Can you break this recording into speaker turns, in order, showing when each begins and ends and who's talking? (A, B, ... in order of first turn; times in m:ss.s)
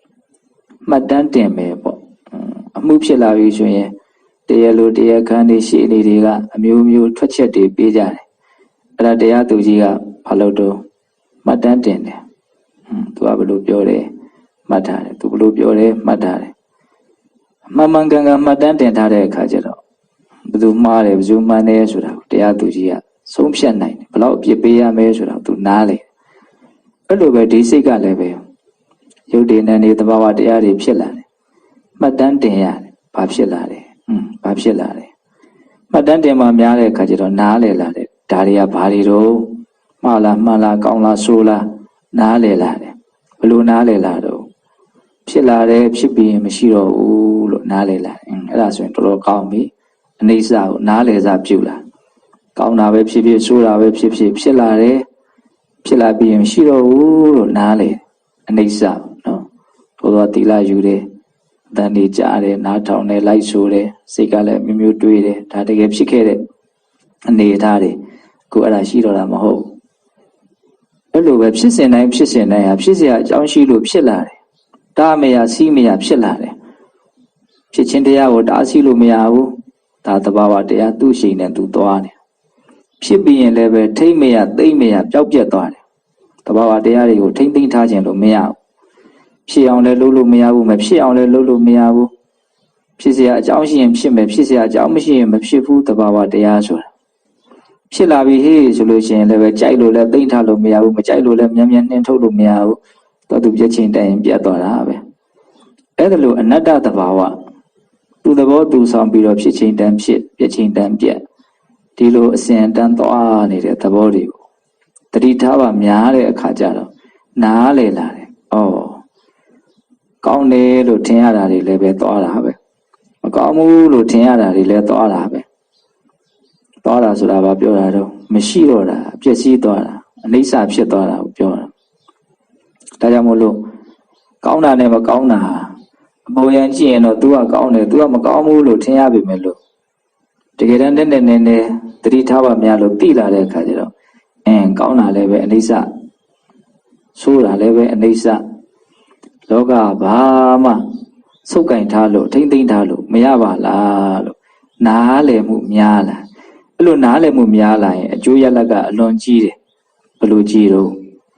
0:00.8-0:03.9 A
0:04.5-0:08.2 A
0:09.0-0:10.8 A
0:11.4-0:12.2 A
0:12.9-0:14.1 A
0:14.7-0:16.5 A
0:17.7-0:19.8 A
0:20.5-0:26.0 A
0:27.1-0:28.4 A
0:29.3-0:31.2 A
0:32.0-0:35.1 A
0:35.9-0:44.4 A
0:45.2-0:51.8 A
0:52.6-0:55.0 A
0:55.8-0:59.4 A
1:00.0-1:01.1 A
1:01.7-1:06.4 A
1:07.3-1:08.0 A
1:08.5-1:09.7 A
1:11.1-1:14.4 A
1:14.9-1:16.5 A
1:17.7-1:22.1 A
1:23.0-1:25.8 A
1:26.4-1:28.6 A
1:29.4-1:32.1 A
1:33.0-1:36.9 A
1:37.9-1:45.0 A
1:46.0-1:47.4 A
1:48.2-1:51.2 A
1:52.0-1:54.4 A
1:55.1-1:59.0 A
2:00.2-2:02.6 A
2:03.2-2:05.4 A
2:06.8-2:11.7 A
2:13.0-2:13.7 A
2:14.4-2:15.7 A
2:16.3-2:19.6 A
2:20.6-2:23.9 A
2:24.4-2:25.9 A
2:27.1-2:28.4 A
2:29.5-2:30.8 A
2:31.4-2:36.2 A
2:36.8-2:39.6 A
2:40.2-2:41.0 A